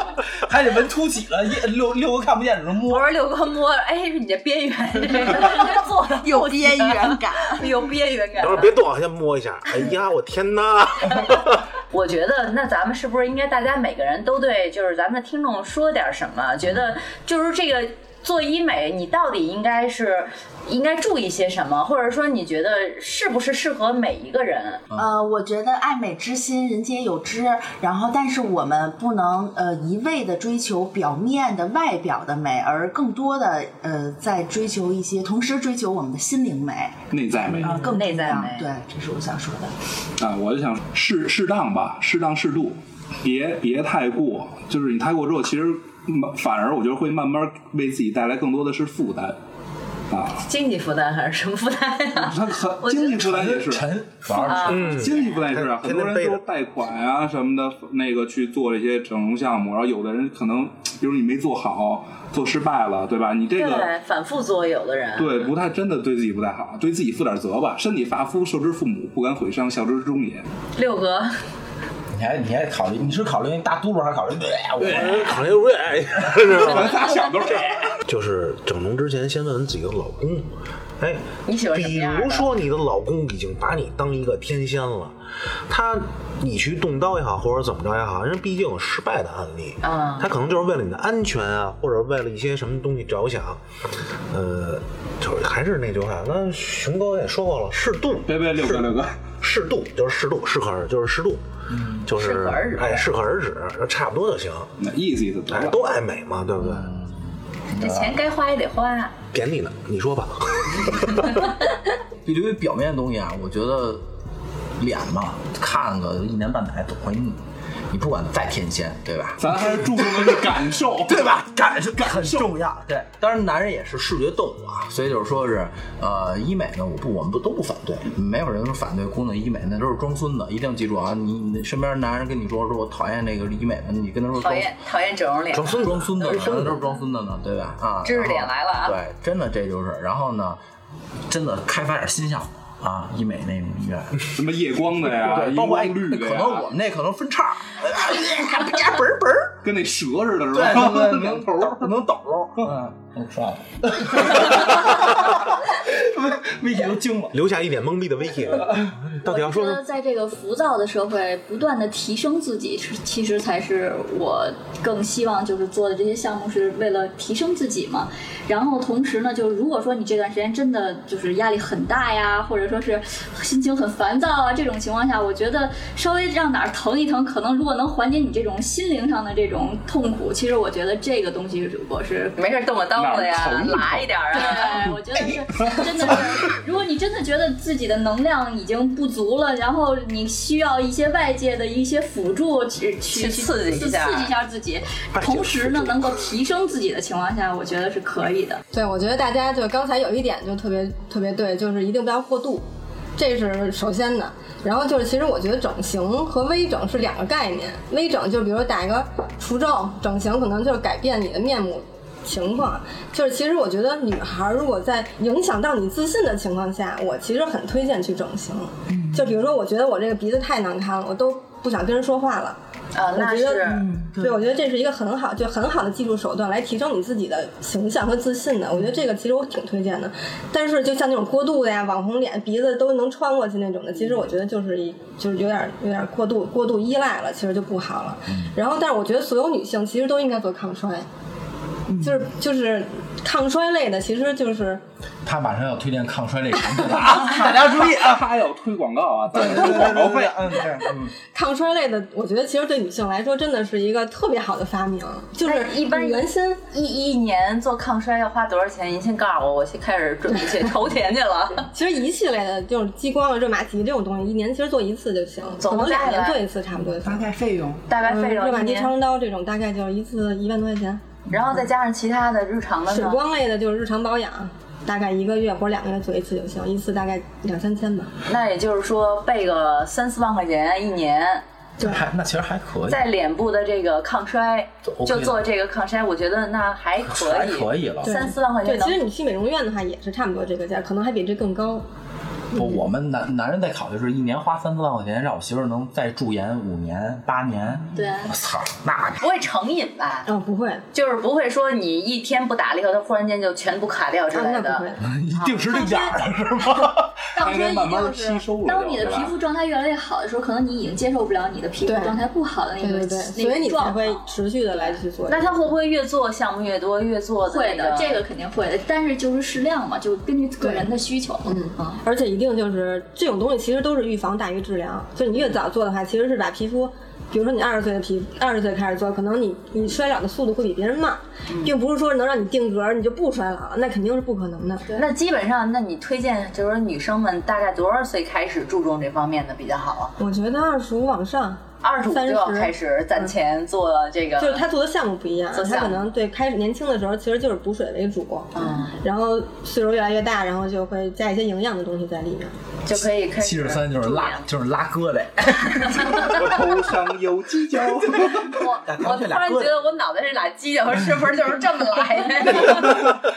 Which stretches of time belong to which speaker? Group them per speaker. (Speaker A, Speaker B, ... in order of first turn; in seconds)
Speaker A: 0.3-3.1, 53.1-55.1, 72.1-75.5, 101.7-102.1, 106.6-108.2, 112.2-114.0, 114.8-134.7, 135.6-140.6, 141.3-144.3, 145.0-149.6, 150.5-157.3, 158.6-158.9, 245.2-248.2, 249.3-251.1, 281.8-283.1, 284.8-285.4, 287.0-288.1, 292.5-299.2, 305.0-307.2, 352.9-356.5, 357.9-359.8
Speaker B: 2.9-8.7, 11.9-24.8, 37.5-38.7, 50.3-53.2, 54.4-55.1, 63.5-65.5, 70.8-71.3, 81.5-82.5, 89.8-90.3, 102.1-103.0, 107.8-109.1, 134.3-136.8, 138.0-138.9, 182.3-184.8, 193.1-194.3, 222.9-223.8, 255.4-261.7, 265.6-266.4, 267.9-268.9, 271.3-273.2, 278.2-281.4, 282.9-289.0, 299.2-300.3, 300.9-304.9, 315.3-318.2, 334.9-340.1, 341.8-344.6, 345.5-346.0, 348.5-349.0, 352.8-354.5, 356.0-356.3, 358.6-363.1
Speaker C: 5.3-7.8, 24.9-39.7, 218.9-219.4, 223.6-224.5, 241.9-242.2, 267.0-267.9
Speaker D: 8.4-11.6, 54.6-56.4, 74.8-77.5, 78.0-80.5, 81.0-85.2, 85.7-93.6, 94.3-98.9, 99.4-101.4, 101.9-104.7, 105.5-106.9, 109.3-111.5, 135.5-136.8, 157.3-159.8, 195.1-196.1
Speaker E: 37.1-37.9, 40.2-49.4, 50.1-50.4, 52.2-63.9, 65.2-70.5, 74.8-75.2, 76.5-78.0, 98.2-99.2, 104.8-105.8, 119.4-121.3, 122.1-122.4, 144.3-146.7, 149.6-151.9, 182.9-186.2, 247.2-250.7, 307.4-309.4, 356.2-358.6, 362.7-363.1
Speaker F: 159.3-182.4, 184.3-198.6, 297.9-298.3, 307.3-315.0, 317.4-321.7
Speaker G: 198.7-202.6, 203.2-222.6, 223.1-241.1, 242.0-244.8, 250.7-256.6, 261.7-267.2, 267.9-271.0, 272.9-278.1, 281.8-282.1, 288.0-291.8, 292.5-292.8, 300.2-300.8, 304.3-306.1, 311.8-312.2, 312.8-315.7, 320.6-320.9, 321.4-334.9, 340.2-343.3, 344.4-352.5